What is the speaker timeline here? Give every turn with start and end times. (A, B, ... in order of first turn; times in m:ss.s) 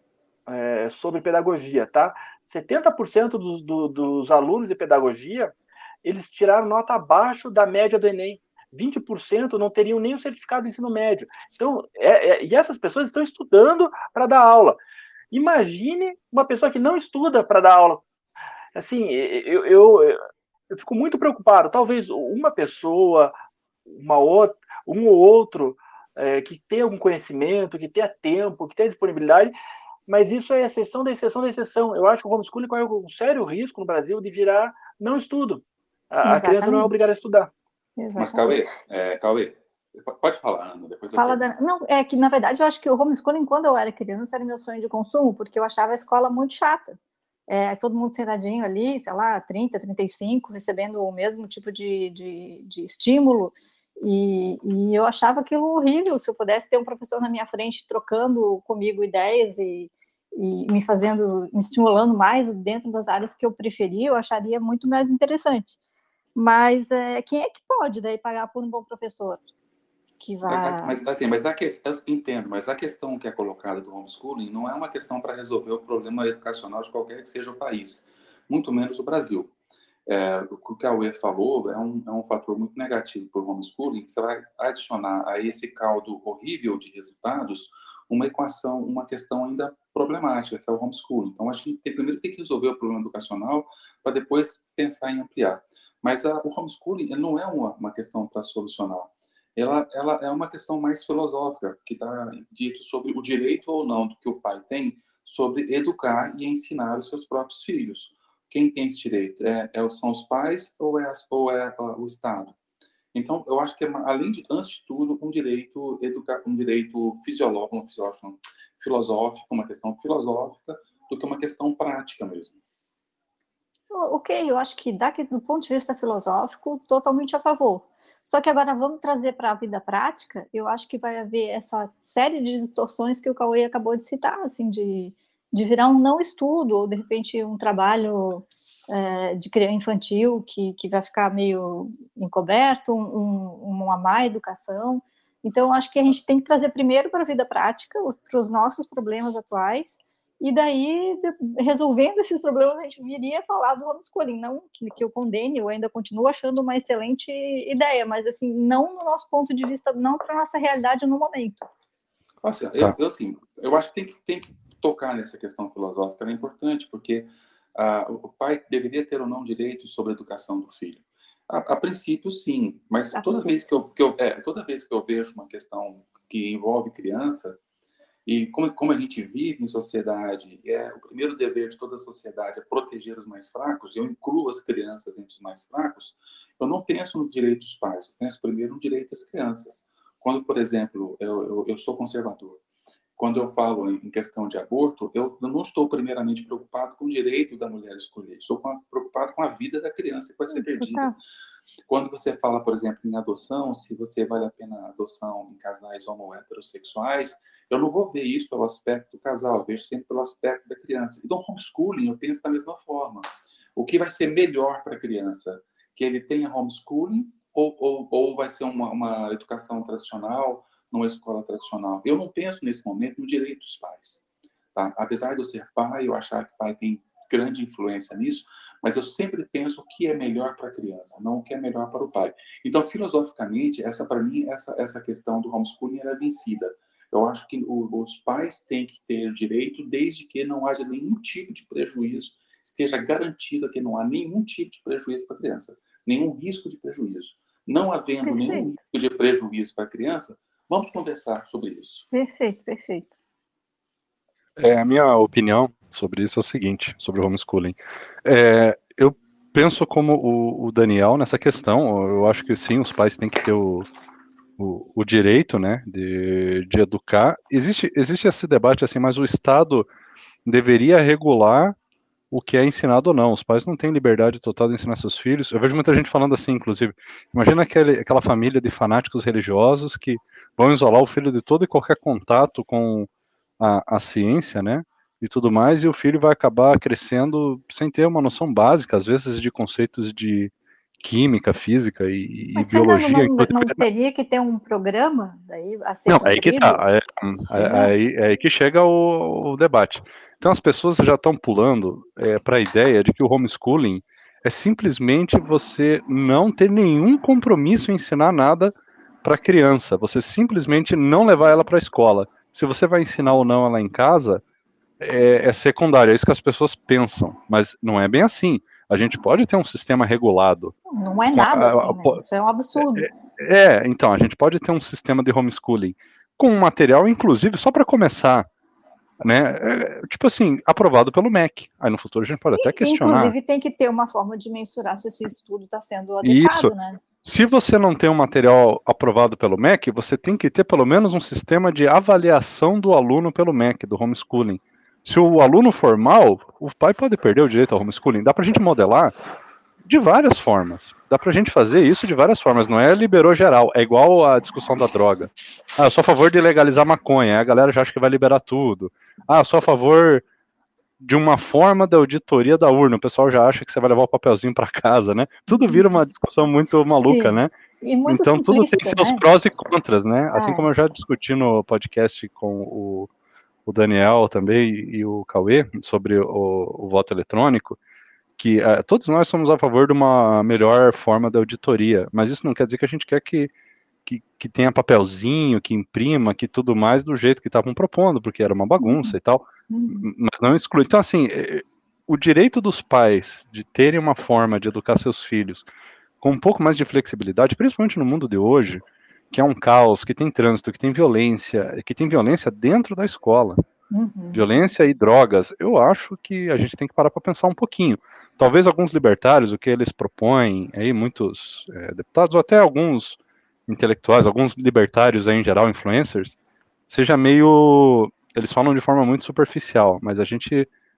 0:00.5-0:14.8 A
0:15.3-0:18.0 A
0:18.7-0:20.2 A
0:20.7-0:23.3 A
0:23.8-0:29.5 A
0:30.1-0:37.5 A
0:36.2-0:37.1 B
0:38.0-0:38.9 B
0:38.2-0:41.4 C
0:41.2-0:47.0 B
0:47.5-1:05.8 B
1:06.4-1:09.4 B
1:10.2-1:11.0 B
1:10.5-1:19.5 C
1:20.0-1:52.5 C
1:53.1-2:02.6 C
2:03.9-2:41.7 B
2:42.4-2:57.6 C
2:53.1-2:53.5 B
2:58.2-3:12.6 C
3:13.2-3:21.1 C
3:20.5-3:21.2 B
3:21.9-3:44.2 C
3:44.7-4:12.1 C
4:08.2-4:08.7 B
4:12.1-4:13.1 B
4:14.6-4:23.9 D
4:24.6-4:29.9 D
4:30.4-4:31.7 D
4:32.3-4:43.1 D
4:43.6-4:53.8 D
4:52.5-4:56.8 B
4:56.1-5:08.7 D
4:57.6-4:57.9 B
5:09.2-5:14.4 D
5:15.0-5:20.7 D
5:20.9-5:23.1 B
5:21.3-5:22.2 D
5:22.8-5:28.4 D
5:29.2-5:33.3 D
5:32.5-5:37.0 B
5:36.2-5:36.7 D
5:37.2-5:49.1 D
5:49.8-6:00.2 D
6:01.0-6:07.5 D
6:05.5-6:06.0 B
6:06.9-6:09.2 B
6:08.0-6:13.1 D
6:10.3-6:10.7 B
6:13.6-6:17.8 D
6:18.4-6:23.5 D
6:24.0-6:35.6 D
6:28.8-6:29.1 B
6:29.7-6:30.0 B
6:36.2-6:43.6 D
6:43.9-6:44.4 B
6:44.3-6:56.4 D
6:56.9-7:00.7 D